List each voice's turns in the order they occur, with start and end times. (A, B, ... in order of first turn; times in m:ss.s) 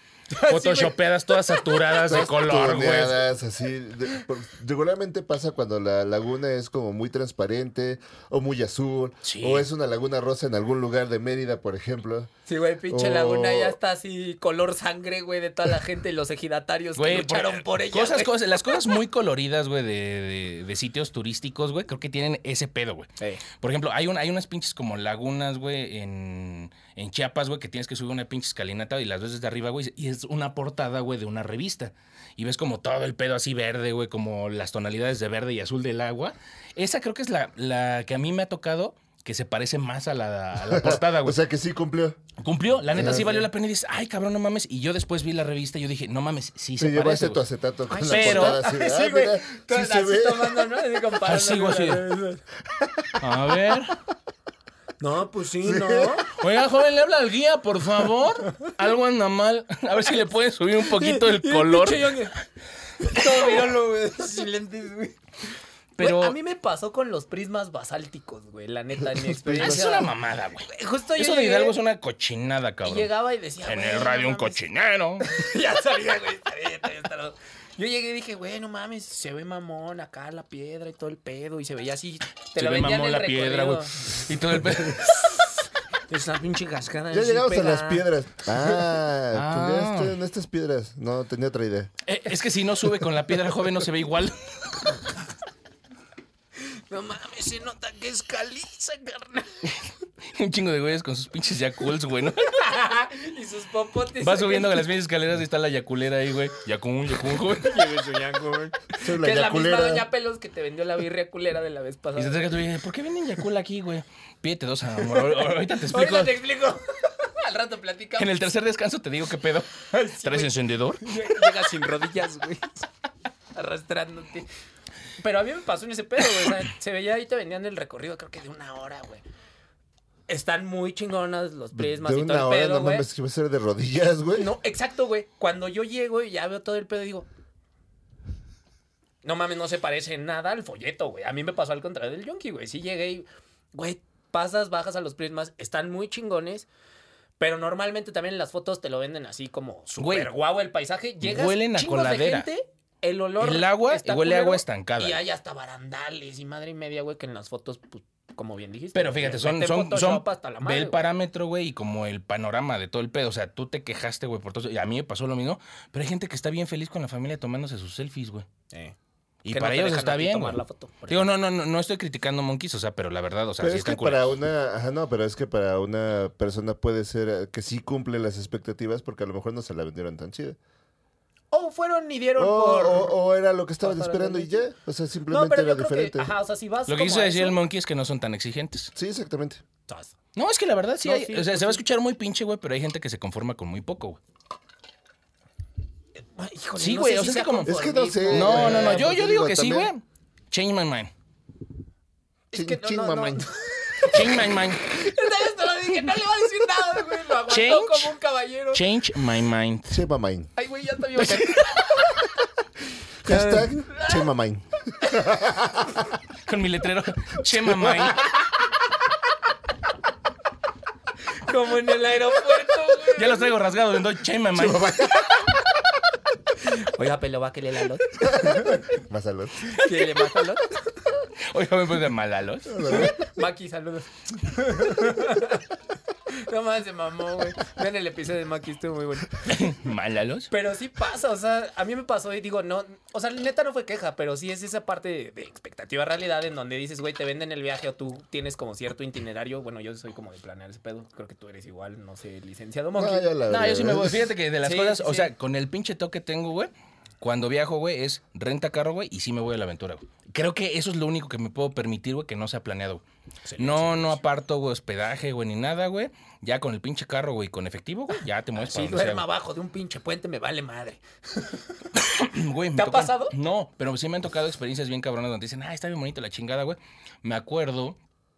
0:00.3-0:02.0 A
0:00.4-0:03.2 B
0:02.0-0:12.3 C
0:09.2-0:09.7 B
0:12.5-0:18.3 A
0:12.9-0:13.8 C
0:17.0-0:41.4 B
0:40.7-0:42.2 C
0:42.4-0:47.4 B
0:42.9-0:43.3 C
0:42.9-0:43.5 A
0:46.8-0:50.7 C
0:47.9-0:52.4 A
0:48.1-0:48.6 B
0:51.2-0:52.1 B
0:52.8-0:53.2 C
0:53.2-0:54.0 B
0:55.0-0:56.3 A
0:55.6-0:56.2 C
0:56.3-1:02.3 B
1:00.8-1:02.4 A
1:03.0-1:05.2 A
1:06.0-1:06.4 B
1:06.0-1:10.1 A
1:09.2-1:09.9 C
1:09.6-1:13.1 B
1:10.7-1:11.8 A
1:12.8-1:14.6 A
1:13.6-1:15.4 B
1:15.2-1:28.1 A
1:22.6-1:25.1 B
1:27.1-1:31.9 C
1:29.3-1:30.2 B
1:32.0-1:34.8 B
1:36.6-1:39.7 A
1:40.3-1:42.7 B
1:42.5-1:44.9 A
1:44.2-1:48.1 B
1:47.6-1:52.5 A
1:49.0-1:50.1 C
1:52.2-1:56.3 B
1:55.8-1:58.3 A
1:58.2-2:01.3 B
1:59.9-2:02.9 A
2:03.6-2:04.5 A
2:05.2-2:09.2 A
2:10.3-2:13.1 A
2:11.8-2:14.5 C
2:14.4-2:17.3 A
2:19.2-2:26.7 A
2:27.4-2:41.0 A
2:30.0-2:30.3 B
2:31.2-2:32.5 B
2:33.4-2:35.2 B
2:39.0-2:48.5 B
2:48.7-2:49.0 A
2:49.4-2:54.3 B
2:49.5-2:51.3 A
2:53.6-3:00.6 C
3:01.5-3:03.1 A
3:02.4-3:06.3 C
3:03.8-3:04.7 A
3:05.3-3:07.6 A
3:06.9-3:08.9 B
3:09.0-3:09.6 C
3:09.9-3:10.2 A
3:10.4-3:14.2 B
3:11.0-3:11.8 A
3:16.4-3:19.1 A
3:16.8-3:17.7 B
3:17.6-3:19.9 C
3:18.3-3:21.1 B
3:22.5-3:28.8 A
3:22.5-3:23.4 C
3:24.1-3:24.9 B
3:27.5-3:28.1 B
3:28.7-3:30.0 B
3:29.9-3:30.5 C
3:30.6-3:32.2 A
3:31.2-3:31.8 B
3:33.2-3:34.3 A
3:33.2-3:36.0 C
3:36.5-3:38.3 B
3:41.4-3:43.5 A
3:43.1-3:45.2 B
3:44.6-3:45.2 C
3:46.6-3:48.9 A
3:48.2-3:49.8 C
3:49.7-3:50.8 A
3:51.5-3:53.1 B
3:52.7-3:53.2 C
3:52.8-3:55.7 A
3:56.3-3:59.7 A
3:59.4-4:00.5 B
4:00.5-4:13.3 A
4:13.0-4:14.3 C
4:13.5-4:23.0 B
4:14.6-4:15.3 A
4:23.4-4:24.2 A
4:23.6-4:29.2 B
4:28.6-4:31.8 A
4:32.0-4:38.0 B
4:32.8-4:33.3 A